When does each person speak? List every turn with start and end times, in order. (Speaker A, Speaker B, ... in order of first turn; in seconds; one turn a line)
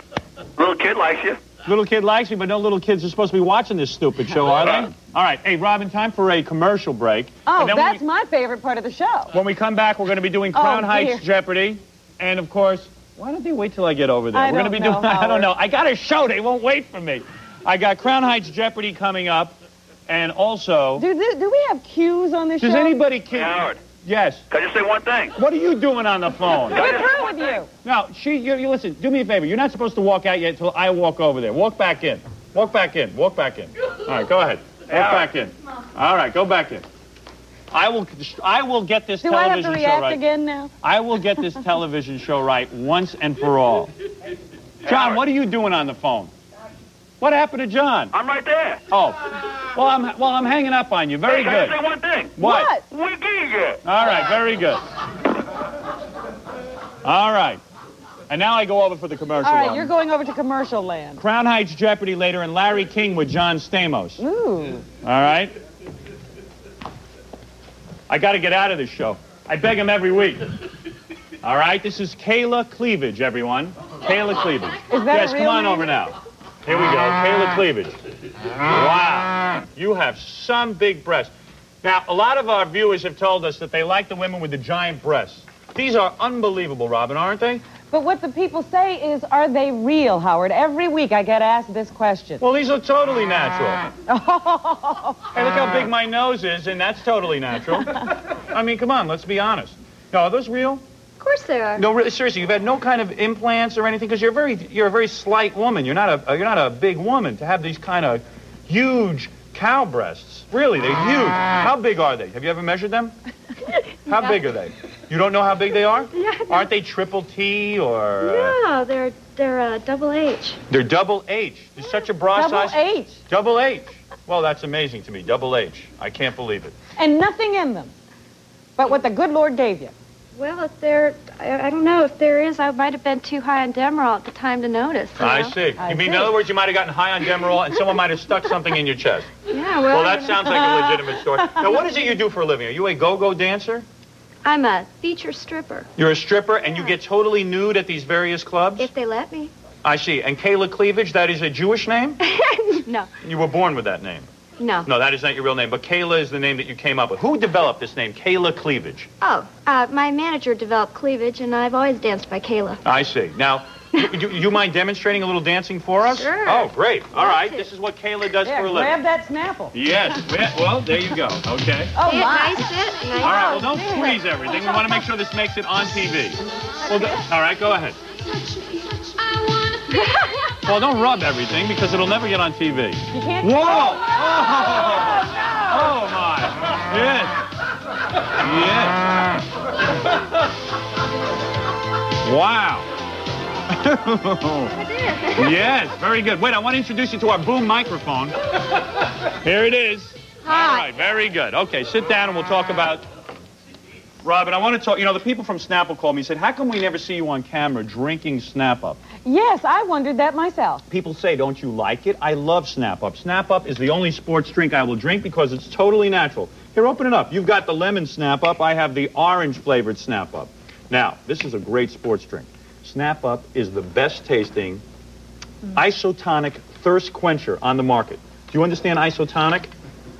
Speaker A: 0.6-1.4
Speaker B: 1.6-8.0
Speaker A: 4.6-4.9
Speaker C: 7.5-9.3
Speaker B: 9.3-19.6
Speaker C: 10.5-11.2
Speaker C: 14.3-15.5
Speaker B: 20.1-21.0
Speaker C: 21.0-23.0
Speaker B: 22.6-24.4
Speaker A: 23.3-23.8
Speaker A: 24.5-25.4
Speaker B: 25.3-26.8
Speaker A: 26.7-27.5
Speaker C: 26.7-27.7
Speaker B: 27.8-36.8
Speaker A: 35.0-35.2
Speaker B: 37.7-40.2
Speaker C: 39.2-40.7
Speaker B: 40.8-43.9
Speaker A: 44.8-45.2
Speaker B: 44.9-46.3
Speaker B: 47.2-48.1
Speaker A: 48.1-48.8
Speaker B: 48.9-51.8
Speaker A: 51.3-52.4
Speaker B: 52.4-52.7
Speaker C: 52.4-52.8
Speaker A: 52.9-53.8
Speaker B: 53.8-54.8
Speaker B: 57.0-57.6
Speaker B: 58.3-59.9
Speaker C: 59.4-61.2
Speaker B: 61.2-64.2
Speaker C: 64.2-64.8
Speaker B: 65.0-65.5
Speaker B: 68.1-70.5
Speaker B: 71.4-77.9
Speaker C: 74.9-75.9
Speaker B: 78.7-81.3
Speaker B: 81.8-87.6
Speaker C: 87.9-92.4
Speaker B: 92.4-93.8
Speaker C: 94.1-95.3
Speaker B: 95.3-100.8
Speaker D: 101.2-101.8
Speaker B: 101.8-113.1
Speaker B: 114.1-118.5
Speaker D: 114.1-114.4
Speaker D: 116.1-116.7
Speaker D: 118.2-120.6
Speaker B: 120.7-126.7
Speaker C: 122.3-123.2
Speaker C: 127.0-127.9
Speaker C: 128.8-129.9
Speaker D: 130.3-135.6
Speaker B: 135.2-139.3
Speaker C: 135.8-136.3
Speaker D: 139.5-141.0
Speaker B: 139.9-143.8
Speaker C: 140.5-140.8
Speaker C: 141.5-141.9
Speaker D: 144.4-145.9
Speaker B: 145.9-148.9
Speaker D: 148.8-149.5
Speaker B: 149.8-152.2
Speaker D: 152.2-153.1
Speaker B: 153.2-154.3
Speaker D: 154.6-154.9
Speaker B: 154.8-159.1
Speaker D: 159.2-162.8
Speaker B: 162.8-168.9
Speaker D: 166.0-167.6
Speaker C: 168.4-169.8
Speaker B: 169.7-171.9
Speaker C: 171.9-174.9
Speaker D: 172.0-173.7
Speaker B: 173.2-178.0
Speaker B: 180.7-187.4
Speaker C: 183.1-185.7
Speaker B: 188.3-189.0
Speaker B: 192.2-192.9
Speaker B: 193.7-194.7
Speaker D: 194.7-195.7
Speaker B: 195.3-198.4
Speaker B: 199.3-203.0
Speaker D: 200.4-200.9
Speaker B: 204.2-209.0
Speaker C: 209.2-210.8
Speaker B: 210.9-224.8
Speaker B: 225.7-229.7